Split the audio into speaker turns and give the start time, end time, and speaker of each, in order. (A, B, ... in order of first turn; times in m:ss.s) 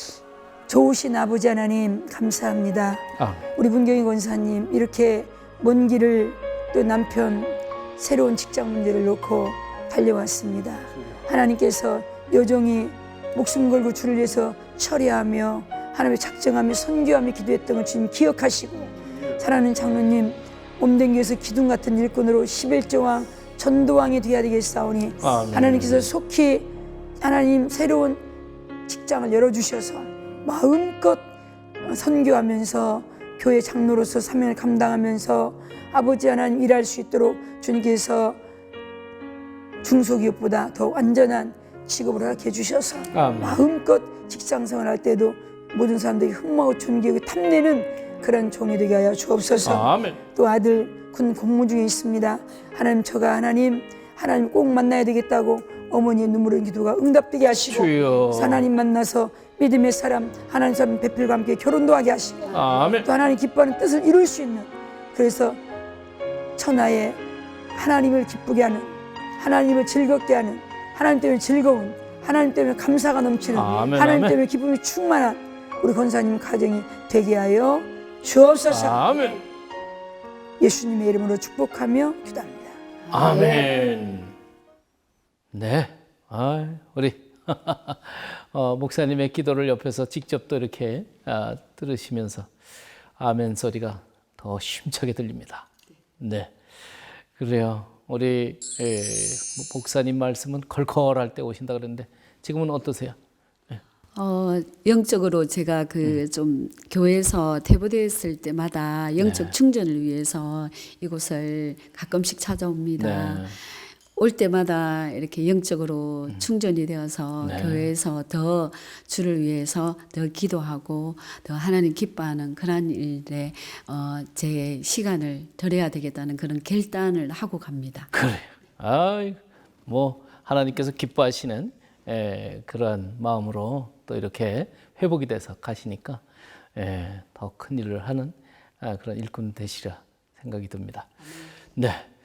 0:00.7-0:28.2 A
0:03.2-0:03.5 B
0:25.2-0:26.1 B
0:28.9-0:38.4 A
0:39.8-1:05.6 A
0:43.1-0:43.6 B
0:49.6-0:50.2 B
0:57.7-0:58.6 B
1:02.5-1:03.1 B
1:06.6-1:07.2 A
1:07.8-1:19.1 A
1:13.5-1:14.4 B
1:18.7-1:19.4 B
1:20.6-1:22.8 A
1:23.1-1:23.7 C
1:23.1-1:24.3 B
1:25.5-1:32.5 B
1:33.2-1:35.7 B
1:36.2-1:43.2 B
1:44.2-2:08.1 C
1:49.2-1:49.6 B
1:53.0-1:53.6 B
1:57.4-1:57.9 B
2:08.1-2:16.2 B
2:16.8-2:21.2 B
2:21.8-2:22.1 B